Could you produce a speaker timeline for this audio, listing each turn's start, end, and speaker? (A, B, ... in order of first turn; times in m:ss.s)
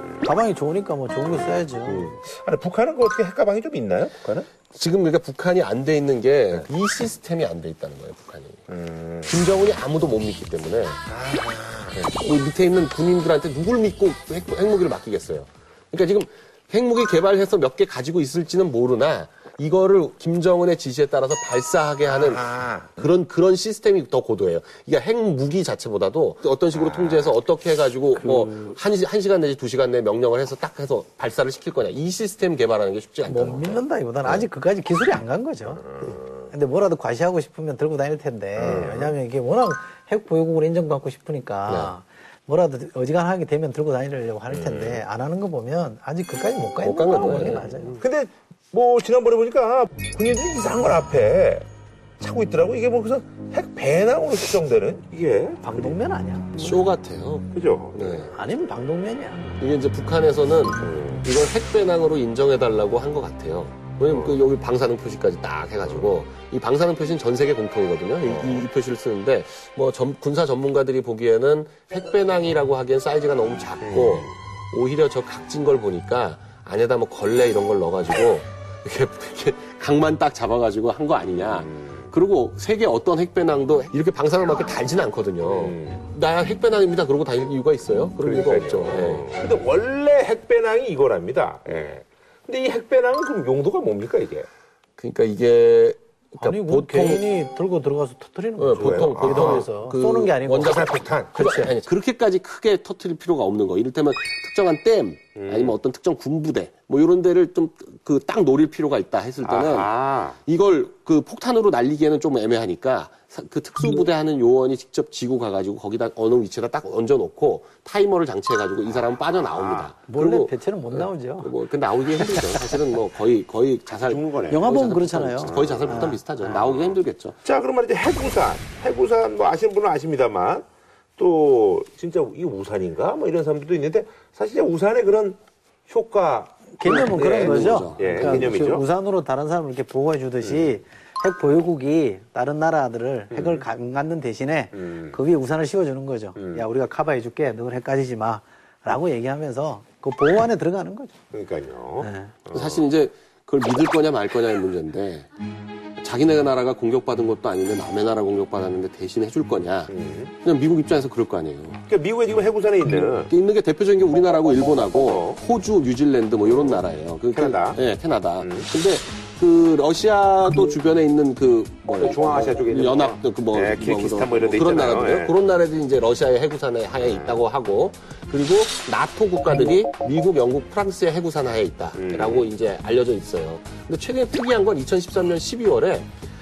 0:00.2-0:02.1 A
0:01.9-0:02.1 B
0:02.3-0:04.5 C
0:04.7-0:08.7 B
0:08.7-0:09.3 C
0:09.2-0:11.0 B
0:11.1-0:12.0 C
0:11.9-0:22.5 B
0:22.1-0:23.1 C
0:23.0-0:34.4 B
0:26.7-0:27.3 C
0:28.2-0:28.8 A
0:33.3-0:48.0 A
0:35.8-0:36.5 C
0:38.6-0:39.1 C
0:41.7-0:41.9 B
0:44.5-0:45.0 C
0:46.8-0:48.0 B
0:48.0-0:51.7 C
0:52.2-0:56.0 C
0:55.6-0:56.7 A
0:56.6-0:58.3 B
0:57.5-0:58.3 C
0:58.3-0:59.4 A
0:59.6-1:29.4 B
1:00.8-1:01.3 C
1:04.0-1:04.4 C
1:05.8-1:06.2 C
1:08.2-1:08.7 C
1:13.8-1:14.3 C
1:21.4-1:22.1 C
1:25.4-1:26.1 C
1:28.2-1:34.5 C
1:35.0-1:37.2 B
1:36.4-1:41.8 A
1:38.6-1:49.9 B
1:38.8-1:39.7 C
1:40.5-1:41.5 C
1:45.4-1:45.8 C
1:49.4-1:50.4 C
1:50.5-2:07.4 B
1:59.3-1:59.9 C
2:00.1-2:01.5 A
2:04.0-2:04.7 C
2:04.5-2:06.2 A
2:05.4-2:06.2 C
2:06.8-2:10.7 C
2:11.2-2:18.8 C
2:16.8-2:31.1 A
2:16.9-2:18.5 B
2:20.4-2:20.7 C
2:23.3-2:23.6 C
2:24.7-2:25.2 C
2:26.4-2:26.6 C
2:31.3-2:32.9 C
2:32.0-2:32.3 A
2:32.5-2:35.3 B
2:36.0-2:41.8 B
2:39.9-2:40.3 C
2:41.9-2:43.3 C
2:43.3-3:06.1 B
2:44.9-2:45.4 C
2:46.4-2:46.8 C
2:47.3-2:47.8 C
2:48.4-2:48.7 C
2:52.0-2:55.4 C
2:57.0-2:57.3 C
3:02.0-3:02.5 C